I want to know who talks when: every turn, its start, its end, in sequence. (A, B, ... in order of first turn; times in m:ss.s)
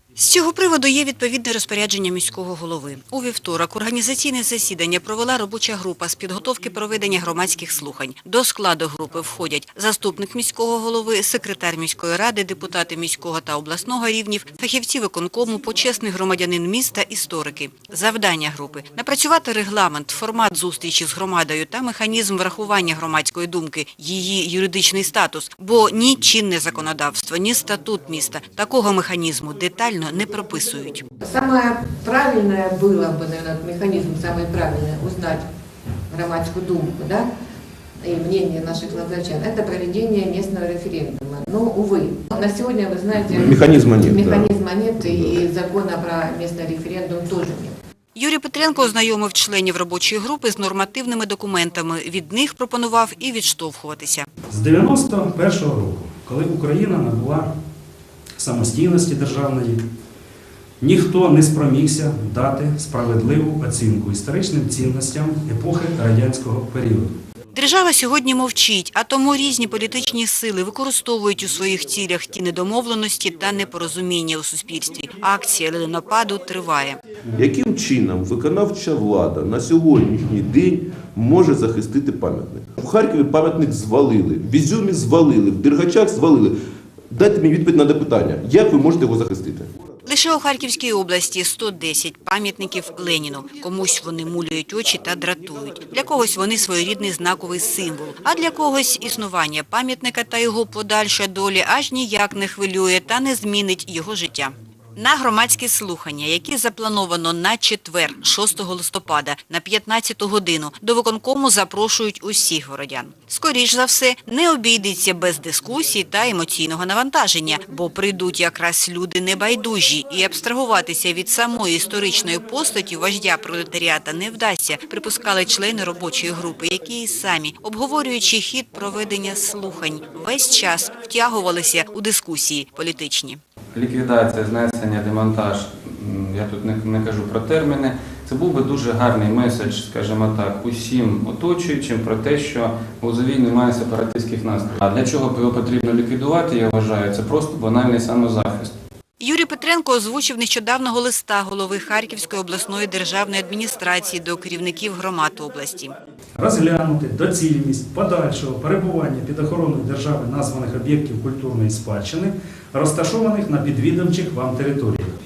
0:00.2-0:31.0 A
0:31.2-0:35.4 B
0:36.1-0:37.3 B
0:38.0-0:47.7 B
0:43.2-0:44.5 C
0:45.0-0:45.4 C
0:48.1-0:54.2 A
0:54.5-0:57.5 D
0:58.4-0:59.8 D
1:00.8-1:07.1 D
1:07.5-1:17.0 A
1:17.4-1:26.5 C
1:27.1-1:29.7 C
1:30.0-2:13.4 A
2:13.7-2:28.7 E
2:29.2-2:35.9 A
2:36.4-2:45.1 D